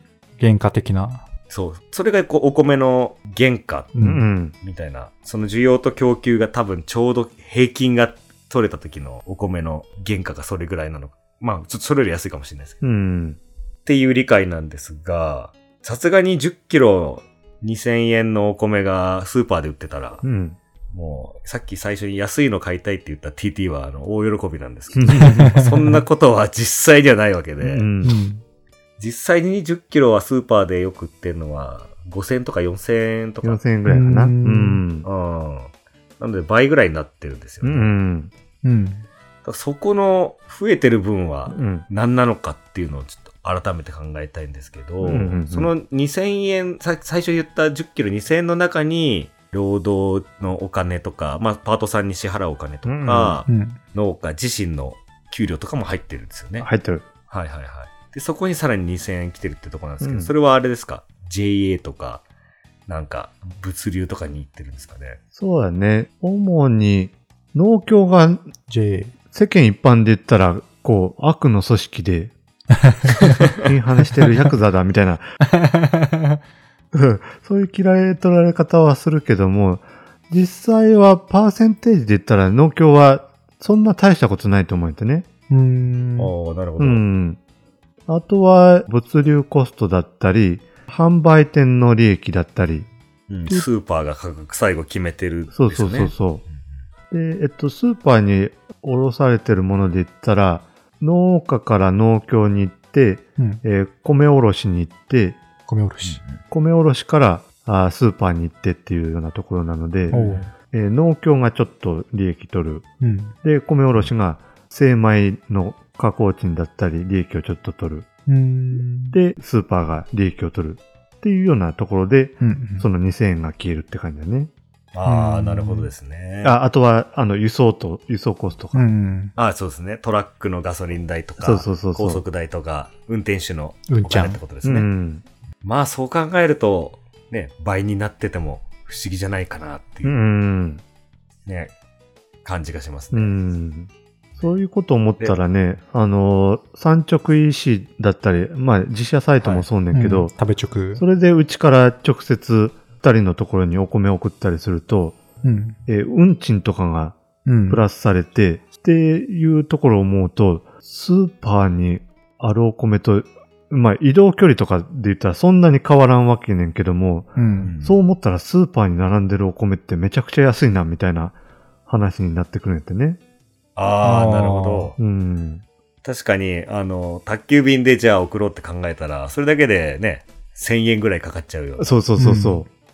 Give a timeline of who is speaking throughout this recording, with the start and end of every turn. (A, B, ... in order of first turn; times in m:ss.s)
0:00.4-0:01.2 A
0:01.5-0:04.0 B
0:04.0-0:04.2 A
0:04.0-0:04.5 C
0:04.5-0:12.8 B
0:12.8-0:13.4 C
0:13.9-0:20.2 B
0:20.2-0:20.6 C
0:20.9-0:27.9 B
0:25.0-0:25.6 C
0:25.1-0:25.8 A
0:27.6-0:28.2 C
0:28.0-0:28.4 A
0:29.0-0:33.6 B
0:33.4-0:35.1 C
0:33.9-0:34.8 A
0:35.0-0:37.9 B
0:37.6-0:38.3 C
0:38.6-0:39.1 A
0:39.4-0:56.7 B
0:41.5-0:41.9 C
0:45.0-0:45.7 C
0:52.8-0:53.4 C
0:53.5-0:53.8 A
0:56.6-0:57.0 C
0:57.3-1:02.2 B
1:00.0-1:00.3 C
1:02.9-1:05.2 B
1:05.4-1:08.4 C
1:08.7-1:09.1 A
1:09.3-1:12.3 C
1:12.8-1:13.3 A
1:13.5-1:15.2 C
1:15.5-1:16.4 A
1:16.9-1:25.3 C
1:25.5-1:26.3 A
1:26.2-1:27.0 B
1:26.8-1:27.4 C
1:28.1-1:32.9 C
1:33.3-1:36.1 B
1:35.5-1:36.4 C
1:37.1-1:45.4 C
1:43.4-1:43.6 A
1:45.7-1:46.2 A
1:46.0-1:46.4 B
1:46.5-1:52.9 C
1:50.1-1:50.5 B
1:50.1-1:50.5 A
1:53.0-1:53.4 A
1:53.4-1:58.1 C
1:58.3-1:59.2 A
1:59.1-2:04.5 C
2:02.4-2:02.9 A
2:04.9-2:06.6 B
2:05.0-2:05.9 A
2:06.4-2:08.9 C
2:08.7-2:09.3 A
2:09.4-2:14.9 B
2:11.4-2:12.2 C
2:13.9-2:14.4 A
2:14.6-2:15.2 C
2:15.6-2:20.2 B
2:20.0-2:20.8 C
2:21.5-2:21.7 B
2:22.4-2:23.4 B
2:23.1-2:30.3 C
2:29.4-2:29.7 B
2:29.9-2:31.0 A
2:31.0-2:35.2 C
2:35.4-2:35.8 A
2:35.9-2:37.2 C
2:37.5-2:37.8 A
2:37.7-2:51.4 C
2:47.4-2:47.7 A
2:47.6-2:48.0 B
2:51.9-2:53.2 C
2:53.8-2:55.0 B
2:54.0-2:54.9 A
2:55.0-2:55.6 C
2:56.0-3:02.0 B
3:01.8-3:02.7 C
3:02.2-3:02.6 A